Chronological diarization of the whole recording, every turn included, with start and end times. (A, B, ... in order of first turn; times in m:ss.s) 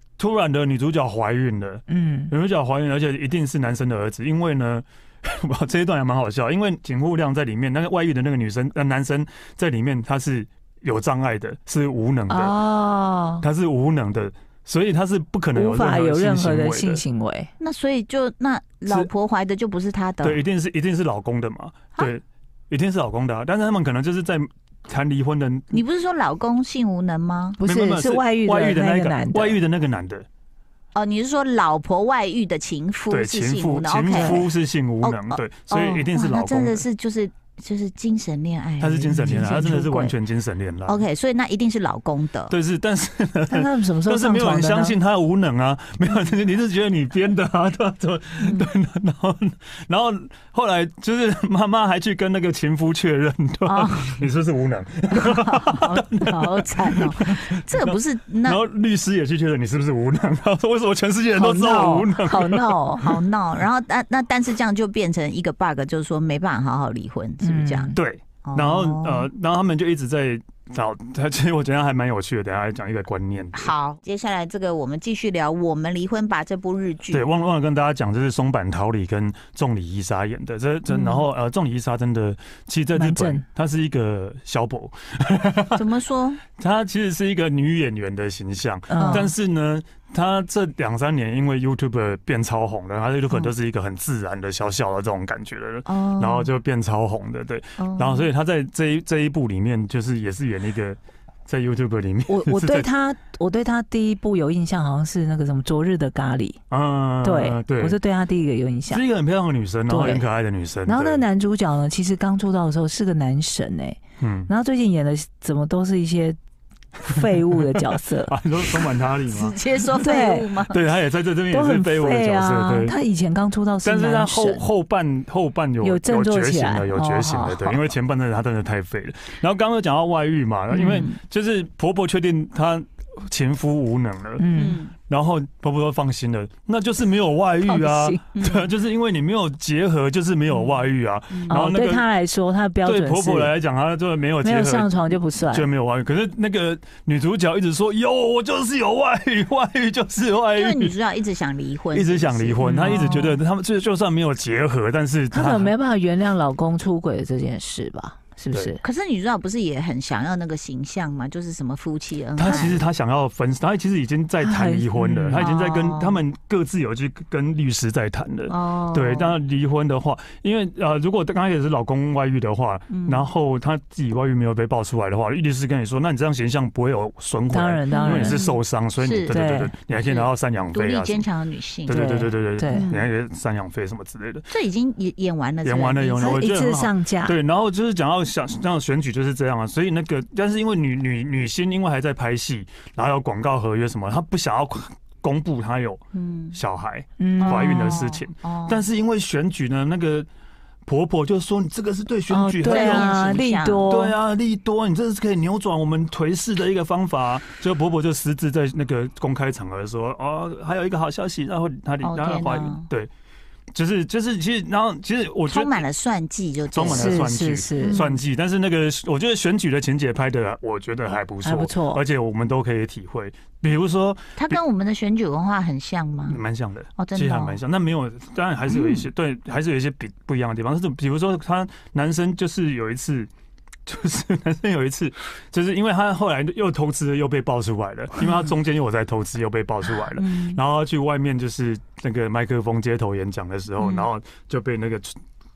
0:00.2-0:12.6 A
0:01.9-0:02.3 B
0:12.3-0:13.4 B
0:13.4-0:17.0 A
0:15.5-0:17.5 B
0:17.6-0:20.4 C
0:20.2-0:25.8 A
0:25.7-0:27.6 C
0:27.6-0:29.6 B
0:27.6-0:30.2 A
0:30.9-0:34.5 C
0:33.1-0:36.8 A
0:34.1-0:34.4 B
0:35.0-0:40.1 C
0:38.8-0:41.0 A
0:40.8-0:42.5 C
0:42.5-0:57.6 A
0:43.5-0:45.0 B
0:48.4-0:48.7 C
0:53.6-0:54.2 C
0:55.1-0:58.6 C
0:58.4-1:02.7 A
1:01.3-1:03.2 B
1:02.9-1:09.3 C
1:07.4-1:08.0 B
1:07.9-1:13.7 A
1:13.6-1:17.2 C
1:17.1-1:25.8 A
1:20.9-1:21.2 C
1:22.9-1:23.4 B
1:25.7-1:26.4 C
1:26.6-1:42.9 A
1:28.9-1:29.3 B
1:28.9-1:29.3 C
1:35.8-1:36.5 C
1:37.8-1:38.3 C
1:42.3-1:46.6 B
1:46.7-1:48.0 A
1:47.2-1:49.0 B
1:48.9-1:51.2 A
1:49.9-1:50.2 B
1:50.8-1:56.4 B
1:54.2-1:54.5 A
1:57.0-1:58.3 B
1:57.2-1:59.6 A
1:59.3-2:00.8 C
2:00.0-2:00.6 B
2:00.7-2:03.0 A
2:01.5-2:04.6 B
2:03.8-2:14.5 A
2:05.8-2:07.8 B
2:10.7-2:11.2 C
2:14.4-2:14.8 B
2:14.5-2:14.9 C
2:15.1-2:22.0 A
2:17.6-2:18.2 B
2:18.3-2:18.7 C
2:20.5-2:20.8 C
2:21.3-2:21.6 C
2:21.5-2:23.5 B
2:22.8-2:31.0 A
2:24.4-2:25.7 B
2:30.5-2:33.0 C
2:31.9-2:35.7 A
2:32.6-2:33.4 B
2:35.3-2:38.8 B
2:38.8-2:42.8 C
2:42.4-3:01.2 A
2:44.4-2:45.6 B
2:45.3-2:46.2 C
2:48.5-2:49.4 C
2:52.9-2:53.3 C
2:57.5-2:58.4 B
2:57.9-2:59.4 C
2:59.3-2:59.7 B
3:00.0-3:02.1 C
3:01.8-3:04.5 A
3:01.9-3:02.9 B
3:02.7-3:03.1 C
3:04.5-3:06.5 C
3:05.6-3:16.0 A
3:06.2-3:07.4 B
3:16.1-3:16.6 C
3:16.5-3:20.3 A
3:17.2-3:18.0 B
3:17.4-3:18.8 C
3:20.8-3:23.1 A
3:22.3-3:24.2 B
3:22.6-3:23.9 C
3:23.9-3:33.1 A
3:32.0-3:32.9 C
3:33.7-3:35.8 A
3:35.4-3:38.2 C
3:36.7-3:44.6 A
3:36.9-3:38.0 B
3:41.4-3:42.0 B
3:44.4-3:46.4 C
3:46.3-3:53.3 A
3:47.0-3:47.6 C
3:48.7-3:49.0 C
3:53.8-4:05.2 A
4:00.2-4:00.6 C
4:03.8-4:04.1 C